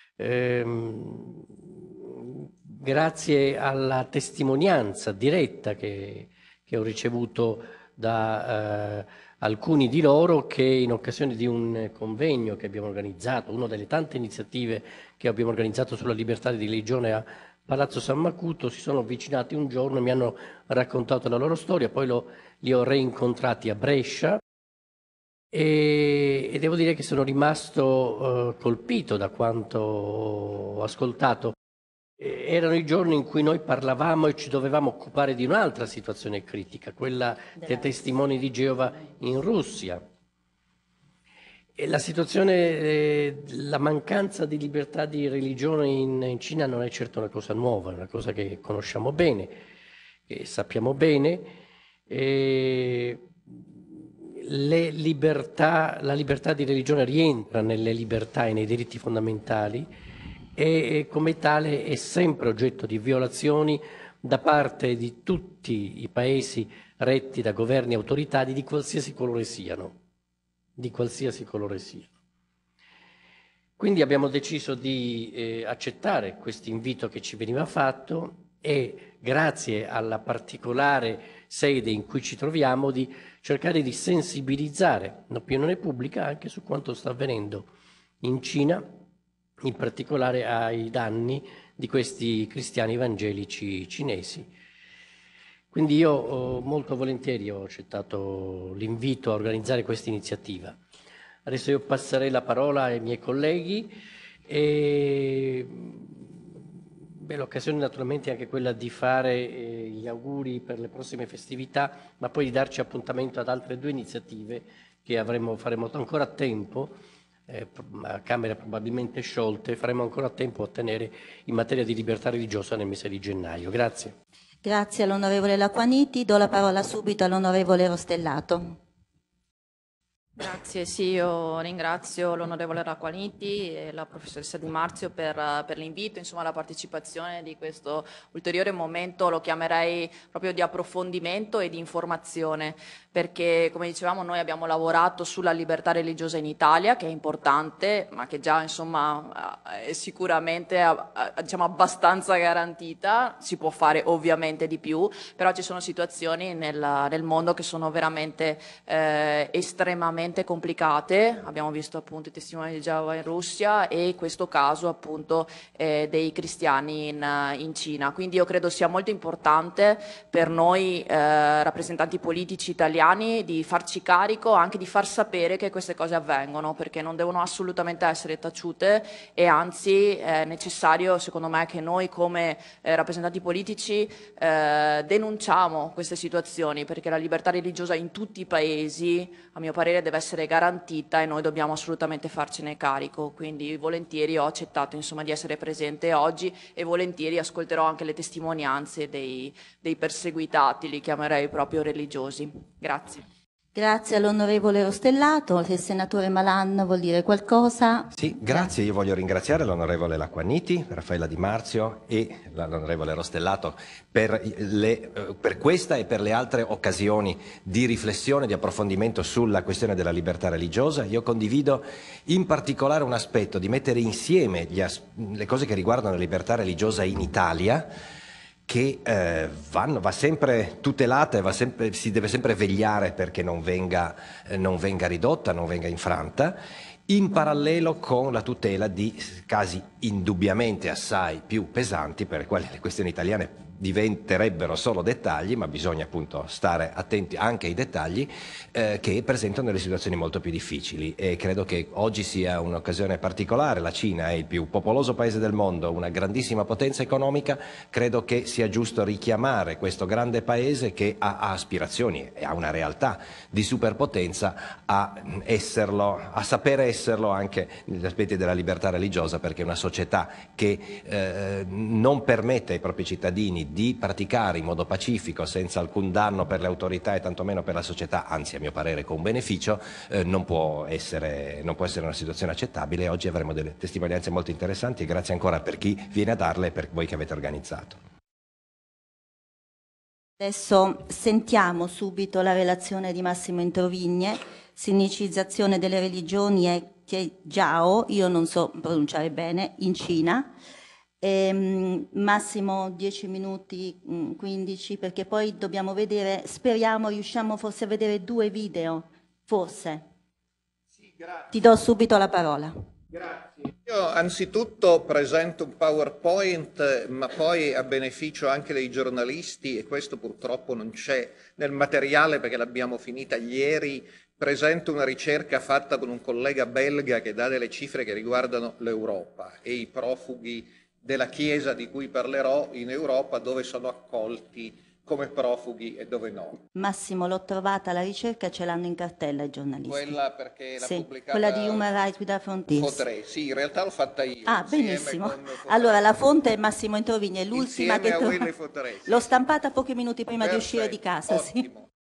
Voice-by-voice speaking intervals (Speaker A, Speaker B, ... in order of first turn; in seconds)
Speaker A: 0.2-24.4, 25.5-31.6, 32.2-40.0, 41.8-49.6, 50.3-51.5, 52.1-59.9, 60.5-70.0, 70.8-72.1, 73.8-87.7, 88.2-89.0, 89.6-94.5, 95.7-100.8, 101.5-103.9, 104.5-117.0, 117.5-124.1
Speaker B: 124.6-128.8, 203.7-208.7, 290.4-300.5, 301.2-310.0, 311.5-312.7, 336.8-340.1, 340.8-343.0, 344.4-348.5, 349.1-351.6
Speaker C: 130.4-203.2
Speaker D: 208.1-227.9, 228.7-288.0
Speaker E: 311.0-311.5, 313.1-336.6, 339.9-341.9, 342.7-346.0, 347.5-349.3, 350.4-351.9